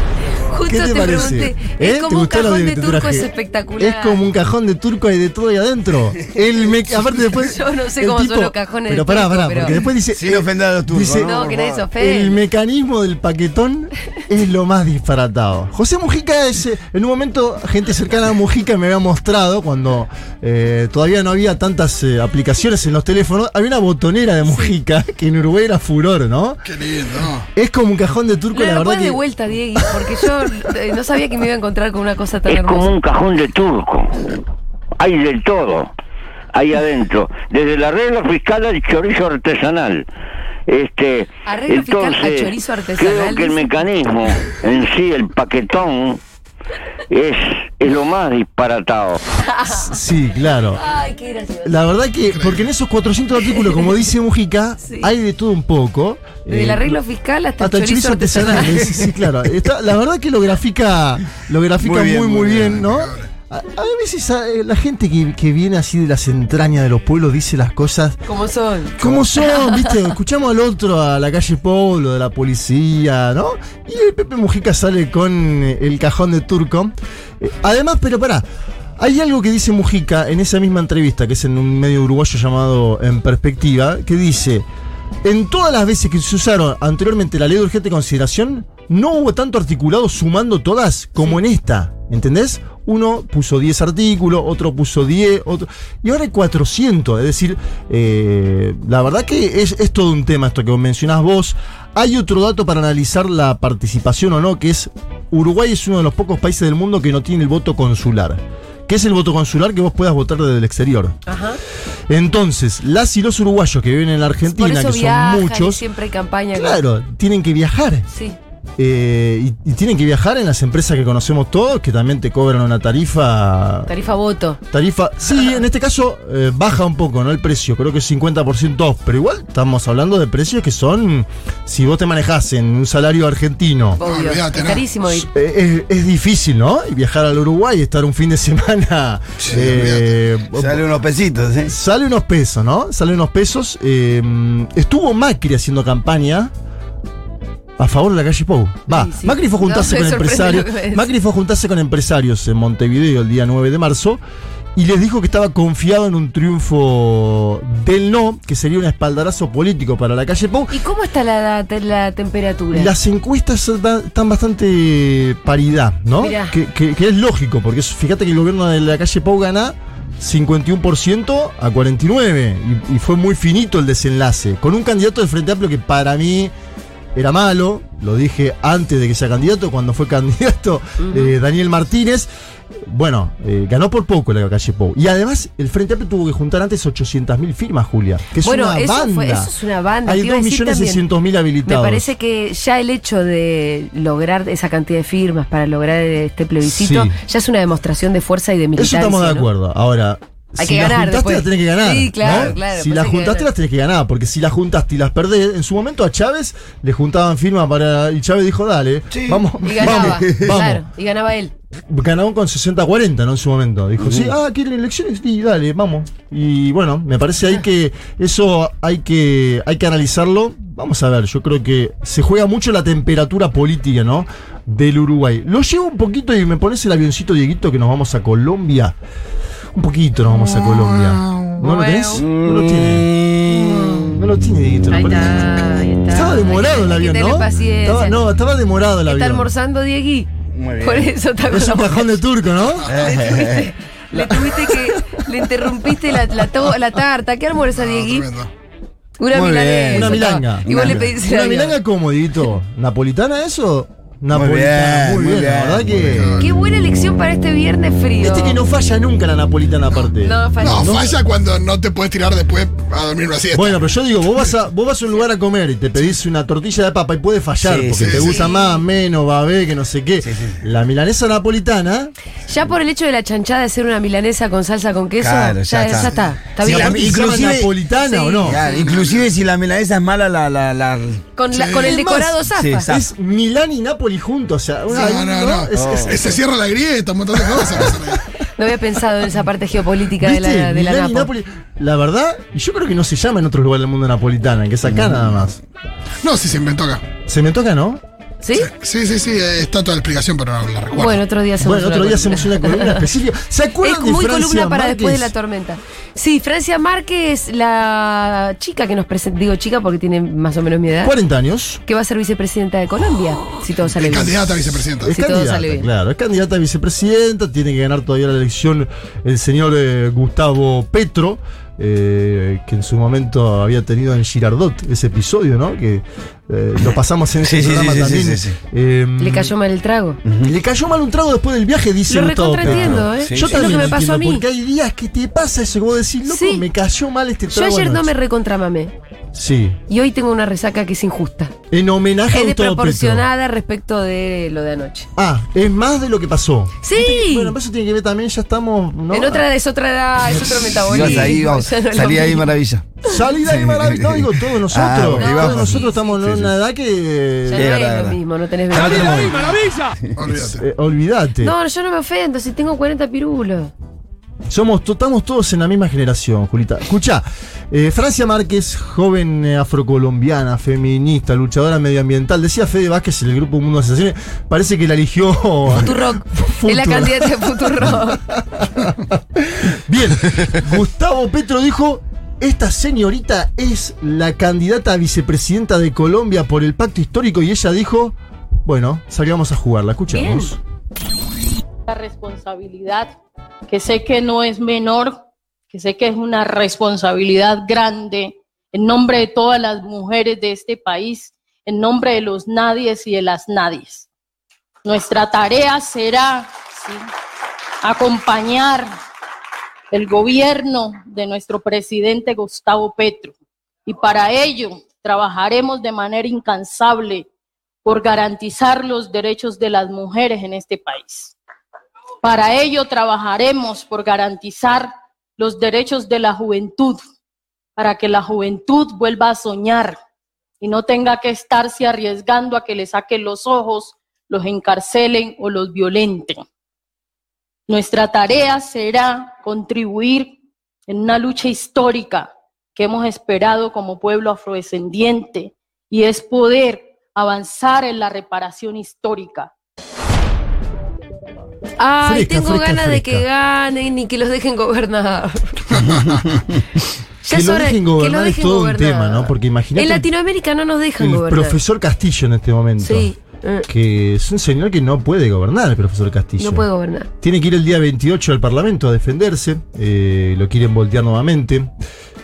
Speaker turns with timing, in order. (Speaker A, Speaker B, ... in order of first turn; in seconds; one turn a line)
Speaker A: 0.3-4.2
Speaker B: 0.6-11.4
Speaker A: 7.2-9.8
Speaker C: 10.1-11.8
Speaker A: 11.2-12.4
Speaker B: 12.0-26.6
Speaker A: 24.4-24.7
Speaker D: 26.7-27.4
Speaker B: 27.6-29.2
Speaker A: 28.5-33.0
Speaker E: 32.5-34.2
Speaker E: 35.0-35.9
Speaker E: 36.5-40.1
Speaker E: 40.7-46.2
Speaker A: 41.5-43.7
Speaker E: 47.1-49.2
Speaker A: 49.4-50.0
Speaker B: 49.7-50.8
Speaker A: 50.8-51.8
Speaker B: 51.6-57.0
Speaker A: 54.8-55.1
Speaker A: 56.5-59.1
Speaker B: 57.6-68.2
Speaker C: 61.8-62.7
Speaker D: 62.8-63.3
Speaker A: 68.2-69.0
Speaker B: 69.0-78.4
Speaker A: 69.6-70.0
Speaker B: 79.0-84.7
Speaker B: 85.2-111.2
Speaker A: 111.3-111.6
Speaker B: 112.1-115.8
Speaker A: 114.5-116.8
Speaker B: 116.5-118.1
Speaker A: 118.1-118.4
Speaker B: 118.8-123.9
Speaker A: 123.9-124.6
Speaker B: 124.7-134.0
Speaker A: 134.0-135.3
Speaker D: 134.0-134.8
Speaker B: 135.1-140.8
Speaker D: 139.4-140.1
Speaker C: 140.5-141.7
Speaker B: 141.6-146.5
Speaker B: 147.8-154.2
Speaker A: 148.9-151.1
Speaker B: 154.8-160.8
Speaker A: 160.7-162.9
Speaker B: 162.7-176.5
Speaker A: 166.2-166.5
Speaker B: 177.1-182.3
Speaker A: 181.0-181.3
Speaker B: 182.8-189.5
Speaker A: 188.4-191.0
Speaker B: 190.1-192.1
Speaker A: 191.7-199.5
Speaker B: 196.6-197.2
Speaker B: 198.8-210.8
Speaker A: 200.6-203.5
Speaker C: 209.1-210.4
Speaker A: 209.6-211.5
Speaker B: 211.9-228.9
Speaker C: 214.0-214.3
Speaker B: 229.7-233.1
Speaker A: 231.6-232.2
Speaker C: 232.2-234.2
Speaker B: 234.0-235.3
Speaker A: 234.9-238.2
Speaker B: 236.1-239.5
Speaker A: 239.1-242.2
Speaker C: 240.5-241.1
Speaker B: 241.5-242.9
Speaker C: 242.9-243.7
Speaker A: 243.0-248.3
Speaker B: 244.1-245.2
Speaker B: 245.8-246.4
Speaker D: 247.9-248.5
Speaker A: 249.2-251.8
Speaker C: 249.3-251.1
Speaker B: 249.9-256.5
Speaker C: 254.3-256.3
Speaker D: 256.2-256.5
Speaker A: 256.4-258.6
Speaker B: 258.2-261.2
Speaker A: 260.2-261.0
Speaker D: 260.6-263.8
Speaker B: 263.5-272.1
Speaker C: 267.6-268.2
Speaker D: 268.0-268.4
Speaker A: 268.3-268.8
Speaker C: 270.2-270.6
Speaker A: 272.5-277.0
Speaker C: 275.2-277.7
Speaker B: 276.6-278.6
Speaker A: 278.0-278.7
Speaker C: 278.4-281.3
Speaker D: 278.7-279.3
Speaker A: 281.4-282.9
Speaker D: 281.5-281.8
Speaker B: 281.8-286.2
Speaker C: 282.5-283.1
Speaker D: 284.9-288.2
Speaker C: 285.7-286.3
Speaker C: 287.7-288.0
Speaker A: 288.6-291.3
Speaker B: 290.2-295.6
Speaker D: 296.2-297.0
Speaker B: 297.3-298.0
Speaker A: 298.4-298.7
Speaker D: 298.6-301.2
Speaker A: 300.9-303.1
Speaker B: 301.6-305.3
Speaker A: 303.8-311.1
Speaker B: 311.0-311.8
Speaker A: 311.8-314.5
Speaker D: 314.0-315.1
Speaker A: 315.0-315.9
Speaker B: 315.1-329.5
Speaker C: 327.4-328.6
Speaker A: 329.2-330.2
Speaker C: 330.2-330.5
Speaker B: 330.4-338.1
Speaker A: 332.1-334.4
Speaker C: 332.6-333.8
Speaker A: 336.3-336.7
Speaker A: 337.5-338.9
Speaker B: 339.3-339.8
Speaker A: 339.9-341.5
Speaker B: 341.7-343.3
Speaker A: 342.3-345.1
Speaker B: 345.2-349.4
Speaker A: 346.8-347.6
Speaker A: 349.1-352.5
Speaker C: 350.8-352.9
Speaker B: 350.9-351.4
Speaker B: 353.0-357.7
Speaker C: 353.5-356.5
Speaker A: 355.1-356.2
Speaker A: 357.5-359.5
Speaker C: 357.6-358.2
Speaker C: 358.7-360.1
Speaker D: 360.2-360.6
Speaker B: 360.3-361.5
Speaker A: 361.4-363.7
Speaker B: 364.5-390.6
Speaker A: 375.8-378.2
Speaker F: 391.9-393.1
Speaker F: 393.7-395.2
Speaker F: 395.7-404.1
Speaker F: 404.8-407.0
Speaker F: 407.8-408.9
Speaker F: 409.9-413.3
Speaker F: 413.9-417.3
Speaker F: 417.8-421.4
Speaker F: 422.2-427.0
Speaker F: 427.8-430.0
Speaker F: 430.6-436.4
Speaker F: 437.7-440.4
Speaker F: 440.9-449.5
Speaker A: 451.8-456.2
Speaker B: 452.0-453.3
Speaker A: 457.2-461.6
Speaker B: 457.3-460.1
Speaker B: 461.0-463.1
Speaker A: 462.8-463.7
Speaker B: 463.7-466.7
Speaker A: 466.4-467.1
Speaker B: 467.2-471.7